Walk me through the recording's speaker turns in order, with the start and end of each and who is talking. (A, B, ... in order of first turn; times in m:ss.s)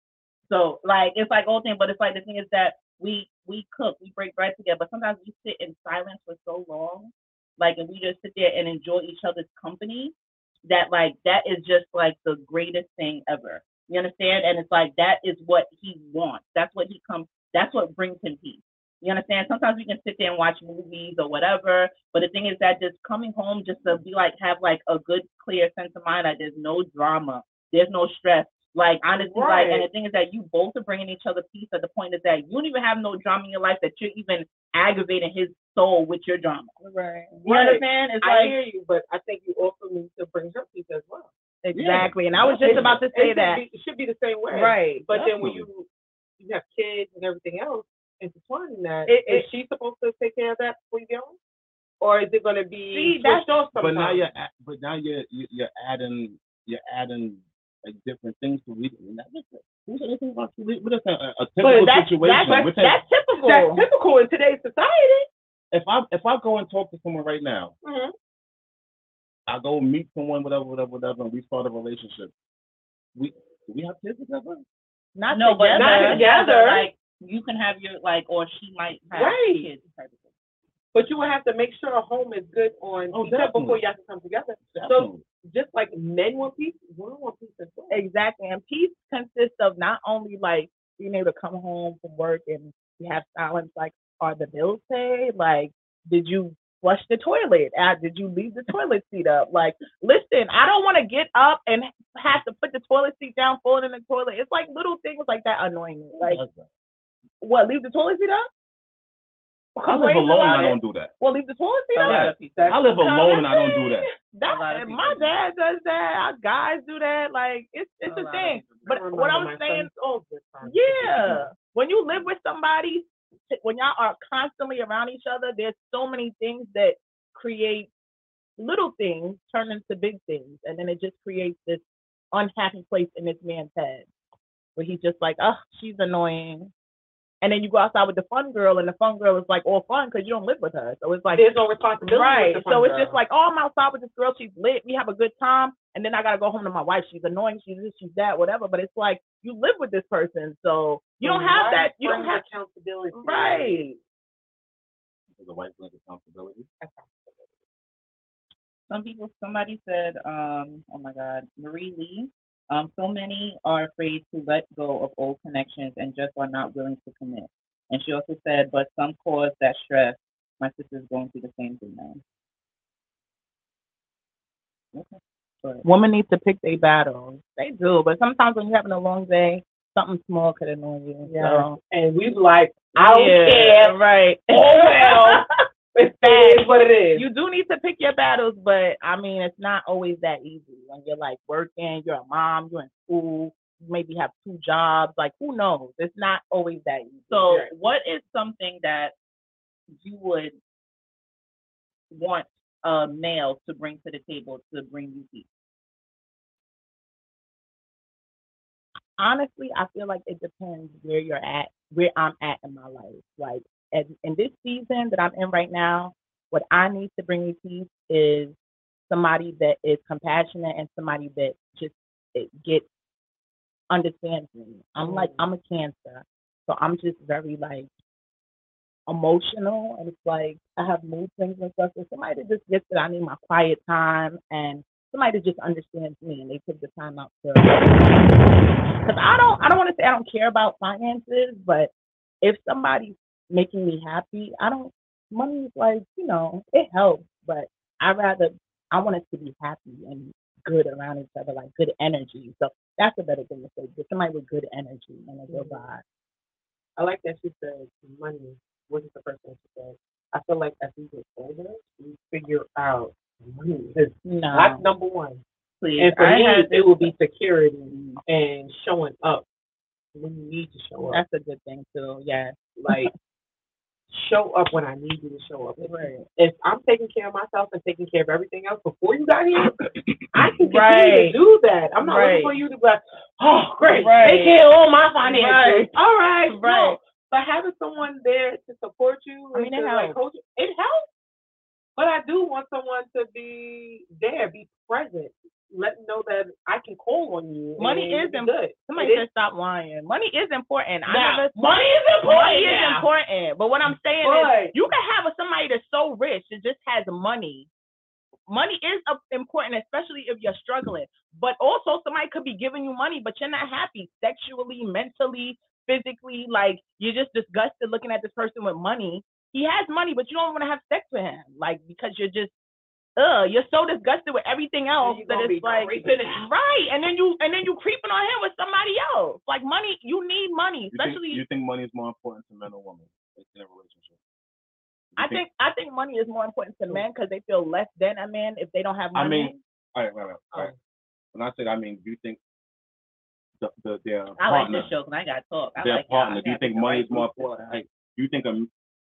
0:00.5-0:10.1 A
0:10.6-0:36.7 A
0:29.2-0:29.9 B
0:36.8-0:37.3 C
0:37.4-0:41.3 B
0:37.4-0:38.6 A
0:41.6-0:43.6 C
0:41.7-0:43.0 D
0:42.6-0:45.9 B
0:44.5-0:45.1 C
0:45.1-0:45.7 D
0:46.4-0:51.4 B
0:49.1-0:49.5 C
0:52.0-0:54.3 B
0:52.9-0:53.5 C
0:53.8-1:03.0 D
1:01.6-1:02.7 B
1:01.8-1:03.8 C
1:03.4-1:05.3 B
1:05.7-1:07.7 D
1:07.8-1:08.1 B
1:09.5-1:12.3 D
1:13.1-1:14.6 D
1:15.2-1:16.3 C
1:15.3-1:20.3 A
1:15.7-1:16.9 B
1:19.1-1:19.7 B
1:20.9-1:28.0 B
1:23.1-1:23.8 D
1:24.6-1:25.3 D
1:27.9-1:46.4 C
1:46.2-1:46.7 D
1:47.4-1:48.5 C
1:49.8-1:52.2 C
1:49.9-1:51.1 D
1:51.9-1:52.7 A
1:52.0-1:54.1 D
1:52.4-1:53.0 B
1:53.0-1:59.9 C
1:54.4-1:55.3 A
1:58.1-1:58.9 A
1:58.9-2:01.5 B
2:00.6-2:07.9 C
2:08.6-2:14.1 C
2:14.8-2:16.7 C
2:17.4-2:21.5 C
2:21.3-2:23.2 B
2:22.0-2:32.4 C
2:31.2-2:33.8 B
2:33.1-2:34.0 C
2:35.4-2:36.7 D
2:36.8-2:37.6 B
2:38.9-2:52.2 A
2:54.9-2:55.8 A
2:55.8-3:01.8 C
3:01.2-3:04.0 B
3:03.0-3:05.4 C
3:04.5-3:07.2 B
3:06.2-3:17.6 C
3:17.3-3:19.1 A
3:19.9-3:20.6 A
3:22.1-3:25.4 A
3:29.2-3:38.6 C
3:39.1-3:42.9 C
3:43.9-3:47.9 C
3:45.0-3:45.5 B
3:49.1-3:58.5 C
3:59.0-4:01.9 C
4:02.4-4:16.0 C
4:15.5-4:15.9 B
4:17.0-4:25.4 B
4:24.2-4:24.8 C
4:25.8-4:27.1 A
4:26.0-4:29.4 B
4:27.9-4:28.2 A
4:30.1-4:31.2 B
4:31.1-4:33.1 C
4:32.8-4:33.1 B
4:34.1-4:39.7 B
4:35.8-4:36.3 C
4:39.6-4:39.9 D
4:40.3-4:51.1 B
4:40.6-4:41.4 C
4:42.0-4:42.6 C
4:43.9-4:44.6 C
4:45.2-4:45.9 C
4:46.5-4:47.0 C
4:49.5-4:50.2 C
4:52.0-4:59.2 B
4:57.8-5:07.7 C
5:01.1-5:03.1 B
5:04.1-5:04.8 B
5:08.5-5:22.5 C
5:23.2-5:31.4 C
5:25.0-5:26.5 B
5:30.9-5:34.2 D
5:35.1-5:35.4 D
5:35.2-5:39.6 C
5:39.1-5:40.7 D
5:41.3-5:42.4 D
5:43.6-5:44.9 D
5:44.4-5:47.8 A
5:45.8-5:48.7 D